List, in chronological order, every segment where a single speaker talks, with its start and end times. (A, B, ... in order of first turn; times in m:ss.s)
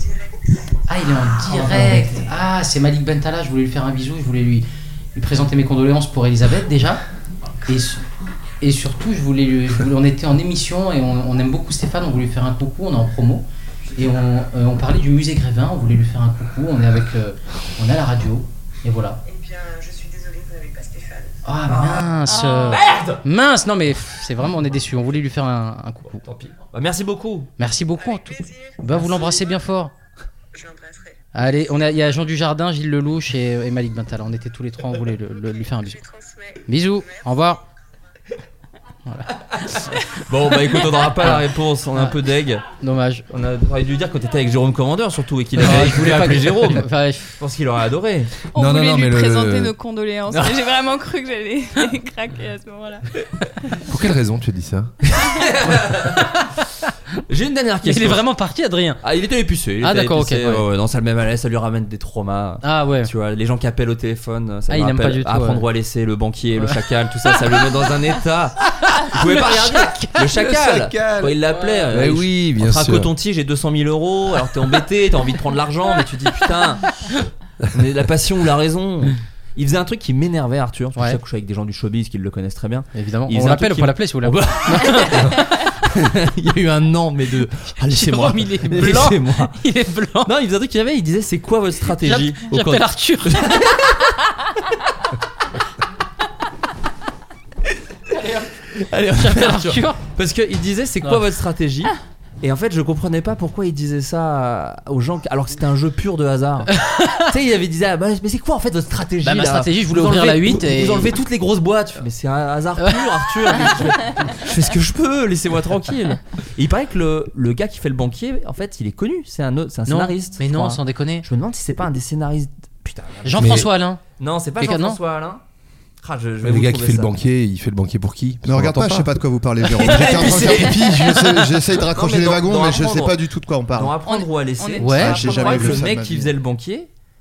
0:00.9-0:07.0 A
0:01.5-0:02.3 B
0:07.7-0:08.0 A
0:08.6-0:13.5 A
0:14.0-0:19.2 A
0:21.4-0:26.2 A
0:21.7-0:22.1 B
0:22.3-0:22.8 C
0:22.7-0:23.2 B
0:26.2-0:27.5 B
0:27.6-0:29.9 A
0:31.3-0:36.1 A
0:36.7-0:37.6 A
0:40.2-0:42.6 B
0:42.8-0:43.2 A
0:43.3-0:46.9 B
0:45.6-0:47.3 A
0:47.4-0:48.4 B
0:48.5-0:53.0 C
0:48.6-0:49.7 D
0:53.9-0:54.9 D
0:55.0-0:56.4 B
0:57.3-0:58.2 B
0:57.8-0:59.0 A
0:59.0-1:08.6 B
0:59.8-1:00.6 A
1:02.6-1:03.1 A
1:04.7-1:05.6 A
1:09.1-1:17.0 B
1:09.1-1:10.2 A
1:10.3-1:13.1 D
1:11.5-1:11.9 A
1:17.7-1:29.6 B
1:22.9-1:25.3 A
1:27.8-1:30.3 A
1:30.2-1:34.0 B
1:32.0-1:33.5 A
1:38.7-2:05.4 B
1:39.2-1:40.0 A
1:46.7-1:47.3 A
1:49.2-1:51.2 A
1:52.8-1:53.2 A
1:59.9-2:01.3 A
2:03.2-2:04.0 A
2:03.4-2:03.7 D
2:04.6-2:05.0 A
2:06.0-2:07.1 B
2:06.4-2:09.1 D
2:08.4-2:14.0 E
2:09.6-2:13.2 B
2:13.8-2:16.9 B
2:14.1-2:15.9 C
2:14.8-2:15.3 A
2:15.0-2:16.3 E